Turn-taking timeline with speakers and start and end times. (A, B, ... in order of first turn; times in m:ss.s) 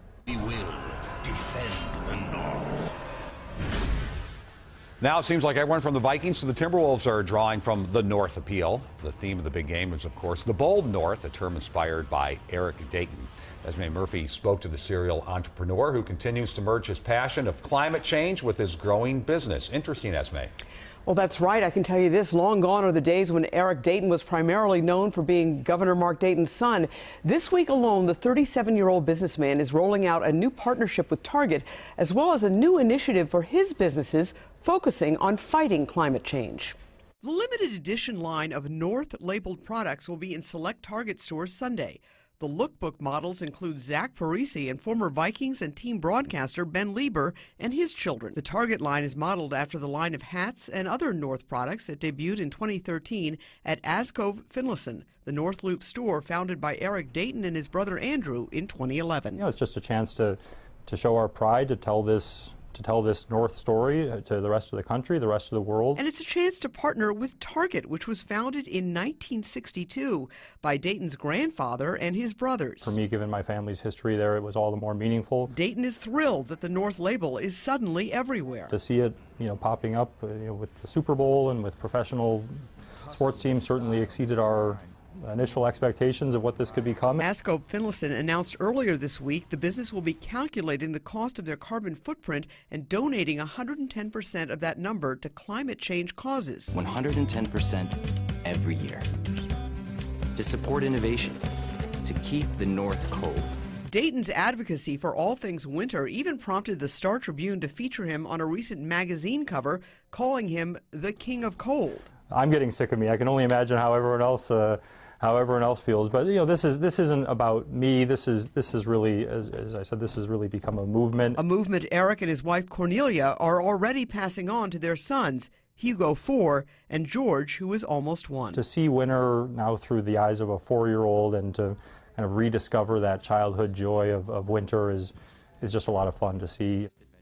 0:00.3-0:02.9 A
0:05.0-0:20.5 B
0:21.0-0:59.4 C
0:59.4-1:06.0 D
1:06.0-1:12.9 C
1:12.8-1:15.5 D
1:15.5-1:18.7 C
1:18.7-1:27.3 D
1:27.2-1:36.7 C
1:36.7-1:39.1 E
1:40.3-1:41.4 E
1:42.0-1:43.5 E
1:43.9-1:52.0 C
1:52.3-2:01.4 D
2:01.4-2:08.6 C
2:08.5-2:16.9 D